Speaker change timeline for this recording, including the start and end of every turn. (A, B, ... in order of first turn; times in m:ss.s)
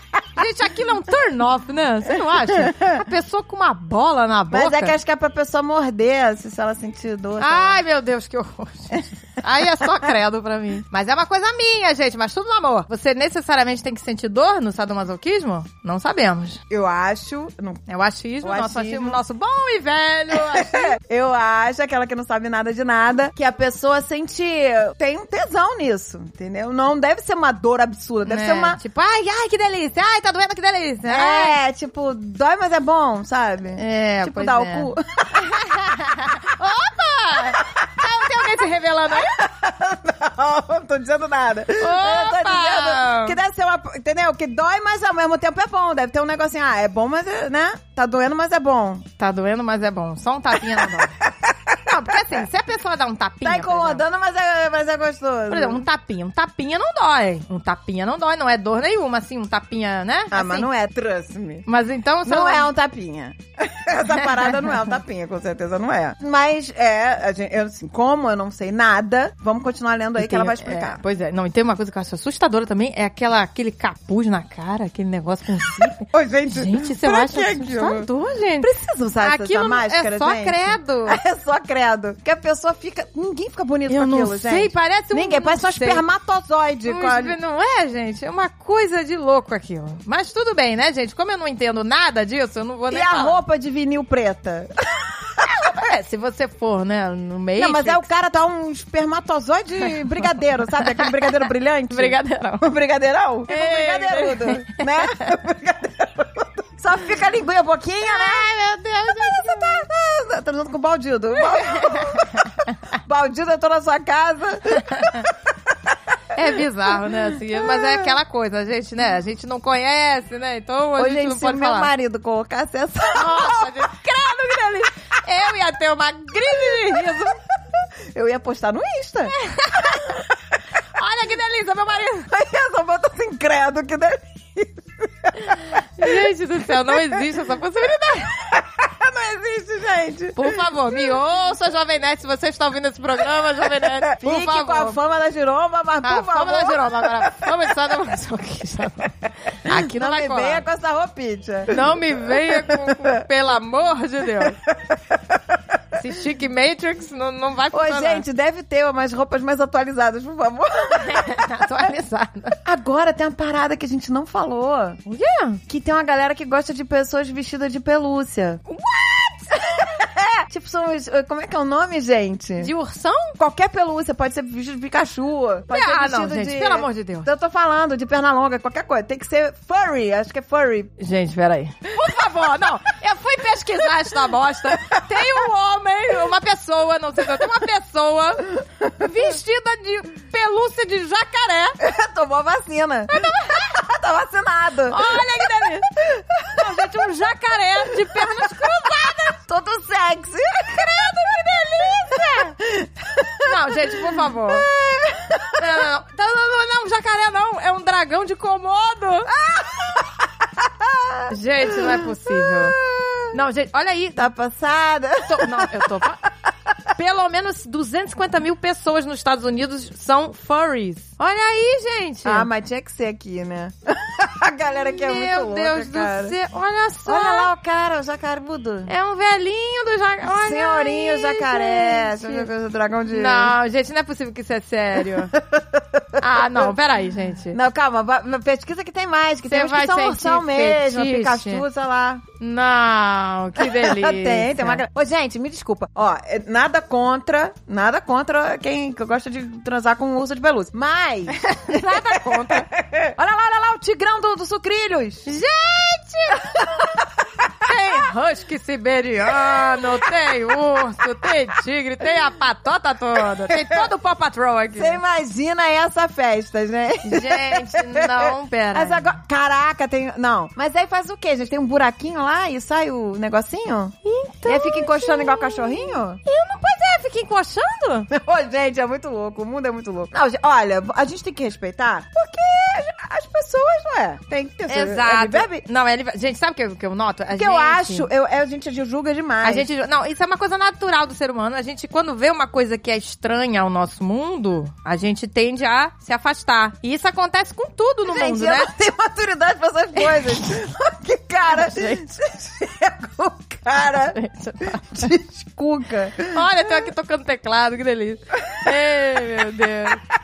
0:00.4-0:04.9 A
0:02.6-0:02.9 B
0:04.5-0:07.8 B
0:07.4-0:16.6 A
0:16.7-0:17.8 B
0:17.9-0:21.0 A
0:18.4-0:19.2 B
0:20.3-0:28.8 B
0:28.3-0:31.6 A
0:31.1-0:35.5 B
0:33.8-0:39.4 A
0:39.2-0:49.1 B
0:41.8-0:43.4 A
0:49.2-0:51.2 A
0:51.4-0:51.8 B
0:51.8-0:54.0 A
0:53.4-0:55.8 B
0:55.5-1:00.7 A
1:00.3-1:01.7 B
1:01.7-1:02.7 A
1:02.2-1:11.0 B
1:10.2-1:18.7 A
1:16.0-1:18.1 B
1:18.6-1:27.4 B
1:19.2-1:21.2 A
1:23.9-1:26.0 A
1:26.9-1:33.4 A
1:32.9-1:35.5 B
1:35.4-1:38.0 A
1:37.6-1:52.5 B
1:41.9-1:42.7 A
1:43.5-1:45.2 A
1:48.2-1:49.9 A
1:51.5-1:52.5 A
1:53.0-1:55.3 B
1:54.9-1:55.2 A
1:56.3-2:01.9 A
1:57.5-1:58.1 B
2:01.0-2:03.7 B
2:03.1-2:07.4 A
2:08.1-2:10.2 B
2:09.4-2:10.1 A
2:11.0-2:12.3 A
2:12.3-2:15.6 B
2:15.5-2:18.4 A
2:17.0-2:17.2 B
2:18.4-2:20.6 B
2:20.4-2:25.0 A
2:24.1-2:27.4 B
2:26.0-2:30.6 A
2:29.7-2:33.1 B
2:31.7-2:34.6 A
2:34.4-2:35.4 B
2:36.0-2:38.2 A
2:37.7-2:41.3 B
2:40.9-2:42.6 A
2:42.6-2:45.0 B
2:45.1-2:45.6 A
2:45.7-2:48.6 B
2:48.7-2:49.7 A
2:49.7-2:52.7 B
2:52.6-2:53.4 A
2:53.4-3:00.9 B
2:55.7-2:57.3 A
3:01.0-3:11.8 A
3:11.8-3:15.2 B
3:13.1-3:13.7 A
3:14.9-3:15.9 A
3:16.0-3:16.8 B
3:16.5-3:19.4 A
3:17.9-3:18.6 B
3:19.4-3:25.7 B
3:21.8-3:22.5 A
3:23.4-3:24.7 A
3:25.6-3:29.3 A
3:29.3-3:33.3 B
3:31.3-3:32.8 A
3:33.3-3:34.2 A
3:34.2-3:35.9 B
3:35.2-3:36.2 A
3:37.0-3:42.5 A
3:42.2-3:46.4 B
3:45.0-3:47.5 A
3:47.1-3:48.9 B
3:48.9-3:52.5 A
3:50.3-3:53.5 B
3:53.1-3:55.4 A
3:55.5-3:56.0 B
3:56.2-3:57.6 A
3:57.5-4:02.2 B
3:59.5-4:01.6 A
4:02.4-4:04.8 A
4:03.6-4:15.3 B
4:11.5-4:12.7 A
4:15.3-4:16.6 A
4:16.6-4:17.0 B
4:17.6-4:25.0 A
4:23.5-4:23.9 B
4:24.8-4:34.0 B
4:27.0-4:29.0 A
4:34.0-4:38.1 A
4:34.5-4:36.2 B
4:38.1-4:45.6 B
4:44.7-4:48.1 A
4:47.3-4:49.7 B
4:49.4-4:58.7 A
4:58.1-5:04.2 B
5:01.5-5:02.0 A
5:04.1-5:05.1 A
5:04.8-5:06.4 B
5:06.3-5:10.0 A